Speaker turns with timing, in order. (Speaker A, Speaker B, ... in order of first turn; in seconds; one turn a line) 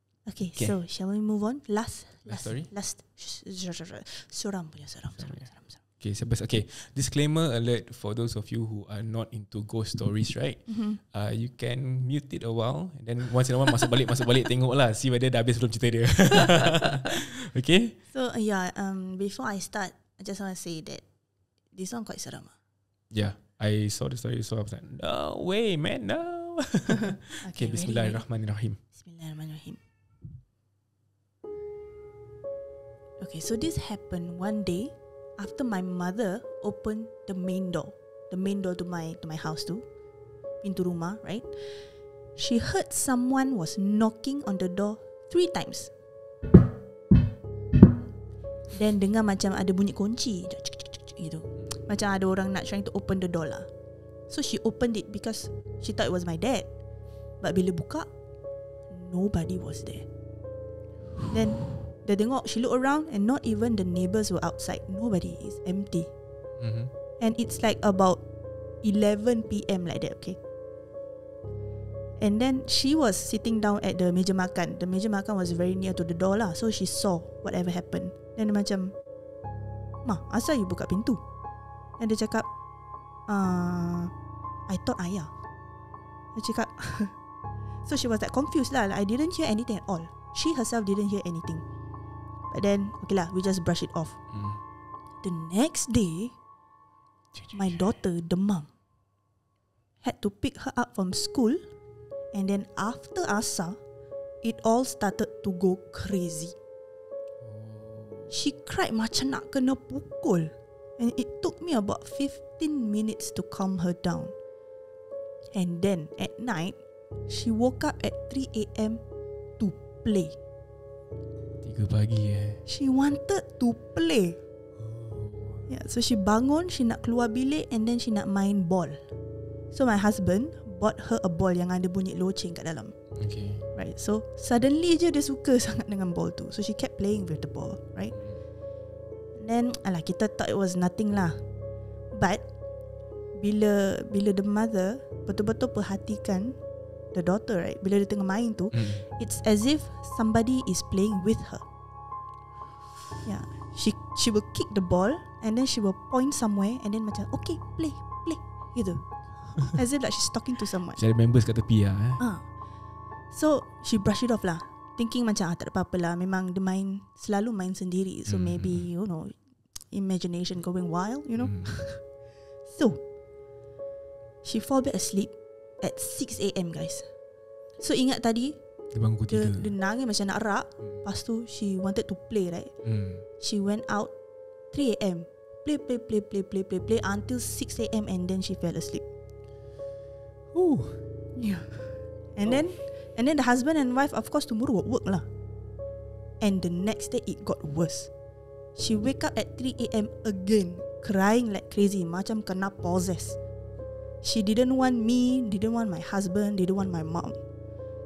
Speaker A: 0.3-5.7
Speaker B: 2.3-2.7
Speaker B: 5.2-18.0
Speaker A: 10.7-11.0
Speaker A: 18.1-21.0
Speaker A: 21.7-22.5
Speaker B: 23.1-28.8
Speaker A: 27.4-28.2
Speaker A: 29.0-29.8
Speaker A: 33.2-39.9
Speaker A: 40.6-41.8
Speaker A: 42.4-45.9
Speaker A: 48.7-53.7
Speaker A: 54.3-56.7
Speaker A: 57.4-58.1
Speaker A: 58.9-60.0
Speaker A: 61.3-66.1
Speaker B: 66.6-66.9
Speaker A: 67.2-68.2
Speaker A: 68.8-70.4
Speaker A: 72.2-78.9
Speaker A: 80.0-81.2
Speaker A: 82.0-82.5
Speaker A: 83.3-84.1
Speaker A: 84.7-85.3
Speaker A: 86.3-87.1
Speaker A: 87.8-91.6
Speaker A: 92.5-94.2
Speaker B: 94.3-94.6
Speaker A: 95.2-96.3
Speaker B: 97.3-97.8
Speaker A: 97.5-98.7
Speaker A: 100.0-101.6
Speaker A: 102.3-103.8
Speaker A: 104.4-106.5
Speaker B: 107.4-108.3
Speaker A: 108.3-114.3
Speaker A: 115.5-116.8
Speaker A: 117.3-119.0
Speaker A: 119.6-120.4
Speaker B: 121.6-122.6
Speaker A: 122.7-124.4
Speaker B: 124.8-125.7
Speaker A: 125.7-129.0
Speaker A: 129.7-132.9
Speaker B: 133.2-133.7
Speaker A: 133.8-138.2
Speaker B: 138.1-138.4
Speaker A: 139.4-141.4
Speaker A: 142.1-142.4
Speaker A: 143.3-146.6
Speaker A: 147.1-151.6
Speaker B: 148.7-149.1
Speaker A: 153.2-159.0
Speaker A: 159.6-161.0
Speaker B: 160.9-162.2
Speaker A: 162.2-162.4
Speaker A: 163.3-169.4
Speaker B: 168.3-168.9
Speaker A: 169.9-172.0
Speaker B: 171.4-171.8
Speaker A: 172.7-173.0
Speaker A: 174.4-177.1
Speaker A: 177.8-178.6
Speaker B: 178.9-179.7
Speaker A: 179.3-182.7
Speaker B: 182.8-183.2
Speaker A: 183.4-184.1
Speaker A: 184.7-189.0
Speaker B: 190.5-191.1
Speaker A: 191.3-195.2
Speaker A: 196.4-198.1
Speaker A: 198.8-203.4
Speaker A: 204.2-207.4